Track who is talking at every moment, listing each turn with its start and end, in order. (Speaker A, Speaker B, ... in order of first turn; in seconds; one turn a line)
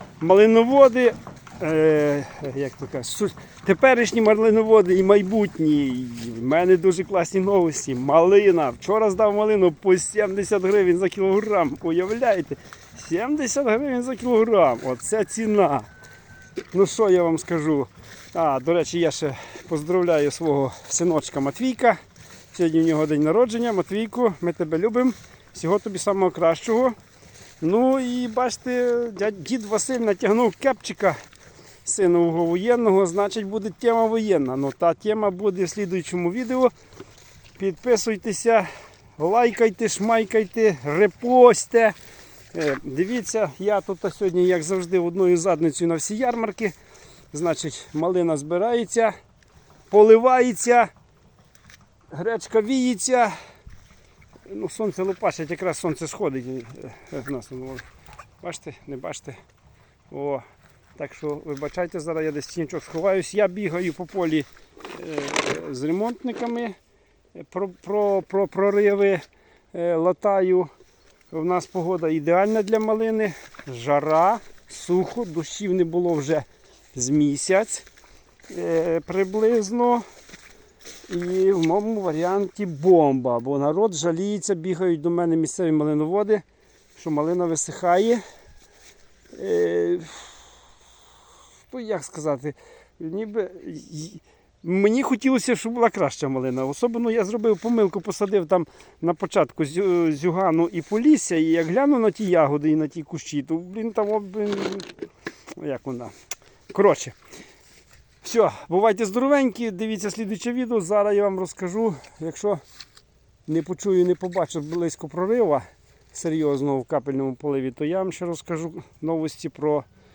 Speaker A: 0.2-15.9
Speaker A: 16.7-22.0
Speaker A: 22.5-26.9
Speaker A: 27.6-31.2
Speaker A: 31.8-36.7
Speaker A: 37.6-38.7
Speaker A: 39.2-42.0
Speaker A: 42.5-46.8
Speaker A: 47.3-49.1
Speaker A: 49.9-50.9
Speaker A: 52.1-53.4
Speaker A: 54.5-57.9
Speaker A: 58.4-59.4
Speaker A: 60.1-60.4
Speaker A: 61.0-66.8
Speaker A: 67.3-70.7
Speaker A: 71.3-77.9
Speaker A: 78.5-80.0
Speaker A: 81.1-86.4
Speaker A: 87.0-88.2
Speaker A: 89.3-90.3
Speaker A: 91.7-104.9
Speaker A: 105.6-106.1
Speaker A: 106.7-107.2
Speaker A: 108.2-112.6
Speaker A: 113.5-119.9